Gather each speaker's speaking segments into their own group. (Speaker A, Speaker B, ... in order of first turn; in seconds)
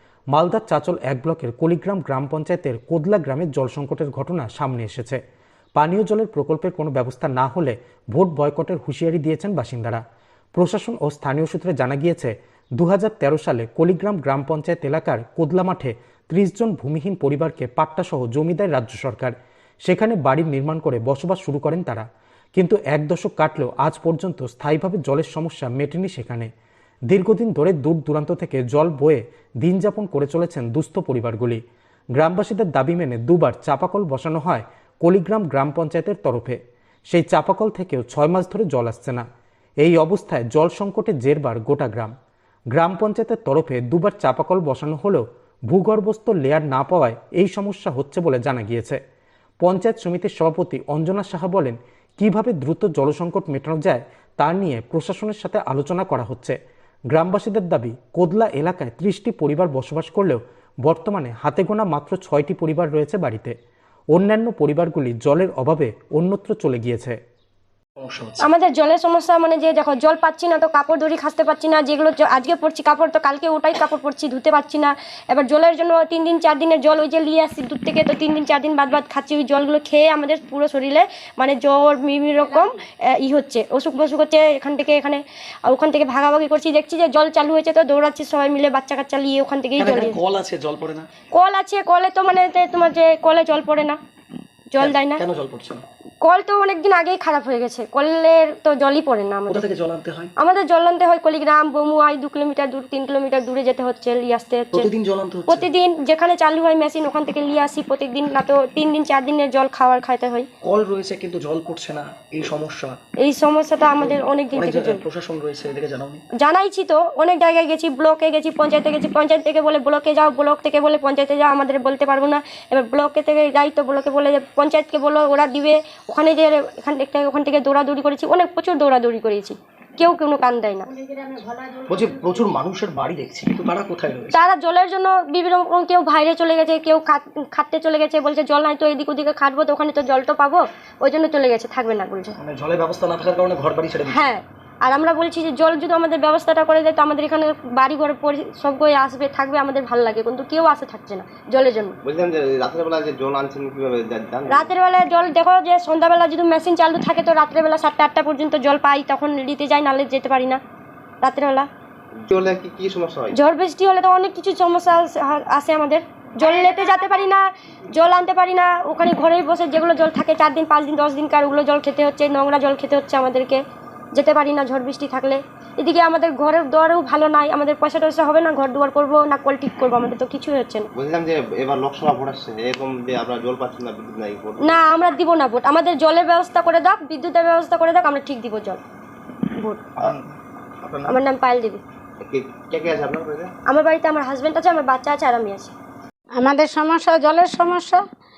Speaker A: 0.3-5.2, 5.8-10.0, 10.5-26.5, 27.1-31.6, 32.1-36.6, 37.1-39.2, 39.8-42.1, 42.7-49.0, 49.6-56.5, 57.1-63.5, 64.1-67.2
Speaker B: 68.0-68.5, 89.8-91.1, 94.8-95.8, 99.5-100.3, 104.7-105.7, 110.6-113.0, 114.0-116.2, 131.9-134.4, 142.4-144.3, 190.0-190.3
Speaker C: 68.4-90.2, 91.3-94.0, 94.7-95.2, 96.2-99.7, 100.4-104.9, 105.5-110.5, 113.2-115.0, 116.4-130.9, 134.3-142.3, 144.1-152.0, 154.5-160.6, 161.2-161.7, 163.3-173.6, 174.1-180.9, 184.6-188.8, 189.6-189.9, 191.1-191.8, 193.7-195.7
Speaker D: 131.0-132.4, 196.4-198.0
Speaker E: 152.0-154.7, 162.3-163.3, 180.9-184.8, 192.2-193.5